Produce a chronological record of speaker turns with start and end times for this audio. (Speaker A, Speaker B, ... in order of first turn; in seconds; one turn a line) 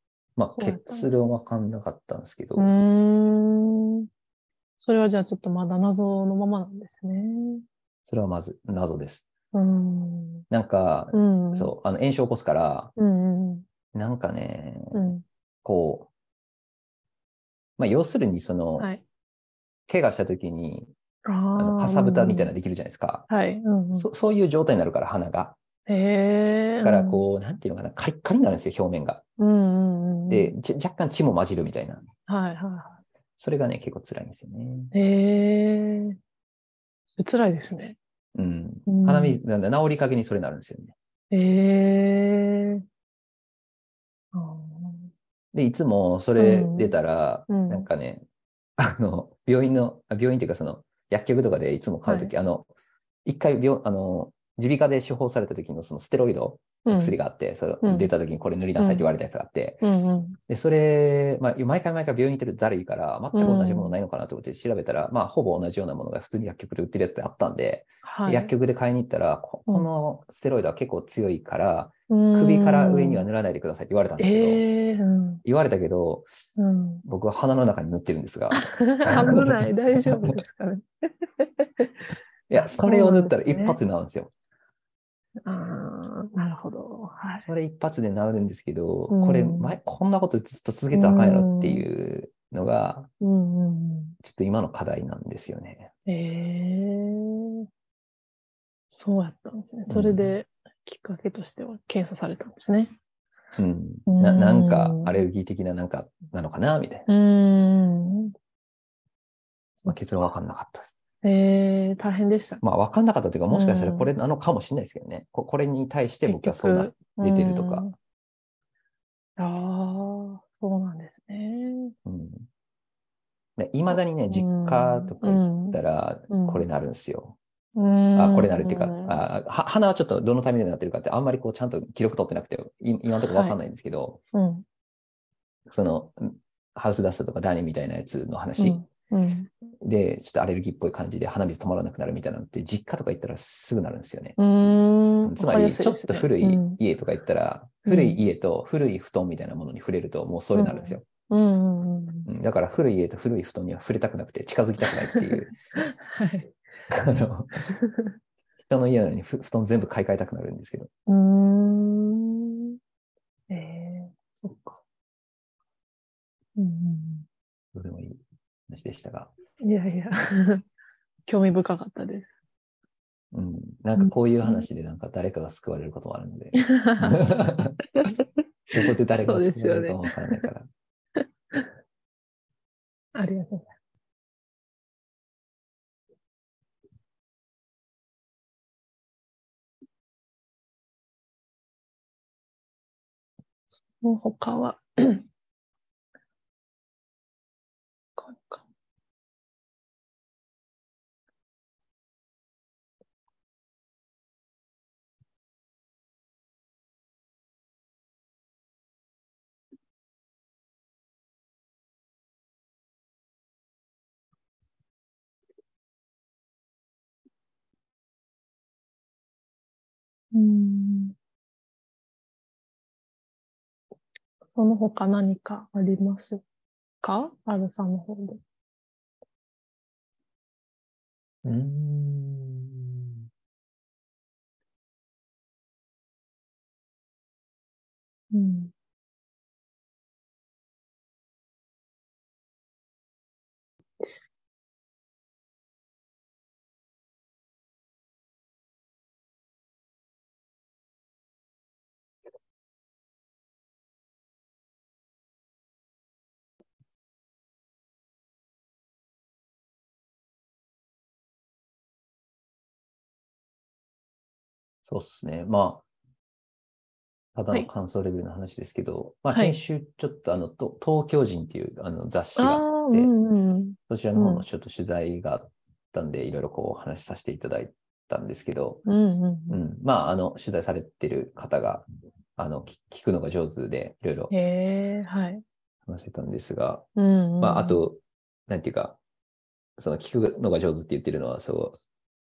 Speaker A: 0.4-2.7
Speaker B: 0.5-1.1
Speaker B: 2.6-4.1
Speaker B: 4.8-7.7
Speaker A: 8.1-9.2
Speaker B: 9.5-10.5
Speaker A: 10.5-12.9
Speaker B: 11.1-11.7
Speaker B: 13.0-13.7
Speaker A: 13.9-15.0
Speaker B: 14.9-15.2
Speaker A: 15.6-16.1
Speaker A: 17.8-18.9
Speaker A: 19.9-20.9
Speaker B: 21.3-22.5
Speaker A: 21.6-23.3
Speaker B: 23.3-24.1
Speaker A: 23.9-25.6
Speaker B: 25.9-27.2
Speaker A: 26.8-29.2
Speaker B: 29.4-30.5
Speaker A: 30.3-32.1
Speaker B: 32.3-33.0
Speaker A: 33.4-34.9
Speaker B: 34.9-36.2
Speaker B: 37.1-38.0
Speaker A: 38.4-40.9
Speaker B: 38.9-39.4
Speaker B: 41.3-42.8
Speaker B: 44.3-45.1
Speaker A: 45.5-48.2
Speaker B: 46.4-47.0
Speaker B: 47.5-47.9
Speaker A: 48.8-52.7
Speaker B: 52.1-52.3
Speaker A: 53.2-59.8
Speaker B: 56.9-57.2
Speaker B: 57.8-58.1
Speaker B: 58.8-59.1
Speaker B: 59.8-60.4
Speaker A: 60.5-74.7
Speaker B: 63.3-64.0
Speaker B: 68.0-68.5
Speaker B: 72.1-73.3
Speaker B: 74.2-75.4
Speaker A: 75.4-76.3
Speaker B: 76.6-77.0
Speaker A: 77.0-80.3
Speaker B: 78.5-81.9
Speaker A: 82.5-84.3
Speaker B: 82.5-83.8
Speaker B: 85.4-87.5
Speaker A: 87.4-93.1
Speaker B: 89.1-89.8
Speaker B: 90.9-91.9
Speaker B: 93.2-94.2
Speaker A: 94.2-95.9
Speaker B: 96.1-97.7
Speaker B: 98.9-103.0
Speaker A: 99.9-100.4
Speaker A: 103.6-107.1
Speaker B: 104.1-105.2
Speaker B: 107.1-108.3
Speaker A: 109.9-111.0
Speaker B: 111.2-112.6
Speaker A: 112.6-117.9
Speaker B: 113.5-114.1
Speaker B: 116.3-118.0
Speaker B: 119.4-122.0
Speaker A: 122.0-122.5
Speaker A: 123.6-127.4
Speaker B: 123.9-126.7
Speaker B: 127.8-129.2
Speaker A: 128.2-134.2
Speaker B: 133.3-133.6
Speaker B: 134.3-134.6
Speaker A: 135.7-138.8
Speaker B: 138.6-139.5
Speaker A: 139.8-144.4
Speaker B: 144.4-146.8
Speaker A: 145.2-151.0
Speaker B: 147.9-148.2
Speaker B: 150.6-152.3
Speaker A: 152.3-155.5
Speaker B: 155.1-156.5
Speaker A: 156.9-157.7
Speaker B: 157.7-158.2
Speaker A: 158.7-160.9
Speaker B: 161.1-162.8
Speaker B: 163.5-164.8
Speaker B: 166.6-167.3
Speaker A: 167.7-169.3
Speaker B: 169.6-170.7
Speaker B: 171.3-172.3
Speaker A: 173.3-177.8
Speaker B: 174.0-174.7
Speaker B: 176.6-177.2
Speaker B: 178.0-180.4
Speaker A: 178.7-180.7
Speaker B: 181.2-181.7
Speaker B: 183.1-183.7
Speaker B: 193.8-195.2
Speaker B: 198.2-198.6
Speaker B: 220.3-221.2
Speaker B: 224.6-226.4
Speaker B: 227.0-228.4
Speaker A: 231.4-233.3
Speaker B: 238.3-238.7
Speaker A: 264.8-265.8
Speaker A: 267.4-273.1
Speaker B: 269.3-269.6
Speaker B: 272.4-274.4
Speaker A: 273.9-278.9
Speaker B: 278.9-279.6
Speaker A: 279.5-281.9
Speaker A: 282.4-284.3
Speaker B: 284.3-285.4
Speaker A: 285.9-286.9
Speaker B: 287.0-287.8
Speaker A: 287.4-289.0
Speaker A: 289.8-291.8